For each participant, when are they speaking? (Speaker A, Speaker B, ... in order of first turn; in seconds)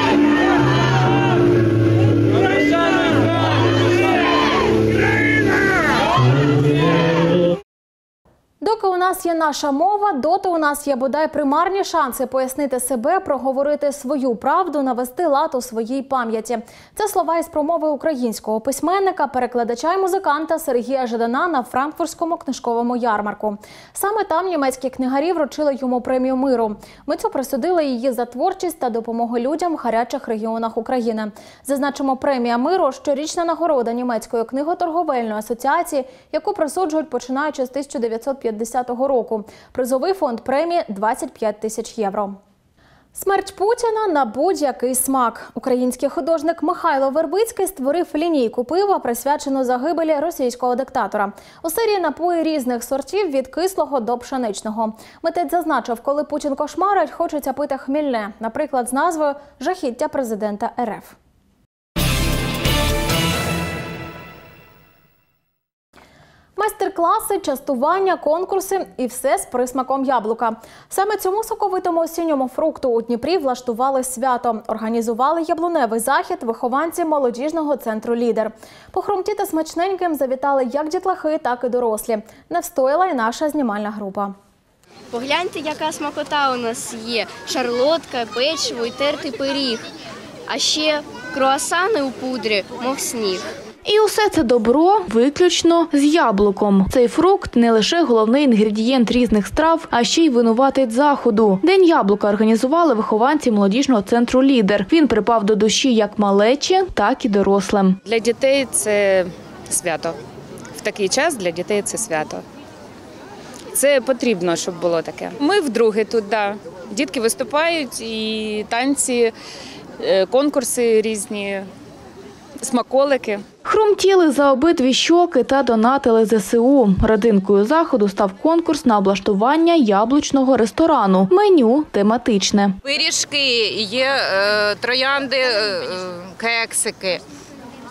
Speaker A: 8.6-42.4, 43.1-61.1, 66.6-84.3
Speaker B: 85.1-89.8, 90.5-93.5
Speaker C: 93.8-108.0, 123.7-132.8
Speaker D: 108.0-110.2, 110.8-112.4, 113.7-119.3, 120.0-121.7, 122.6-123.4
Speaker E: 132.8-137.2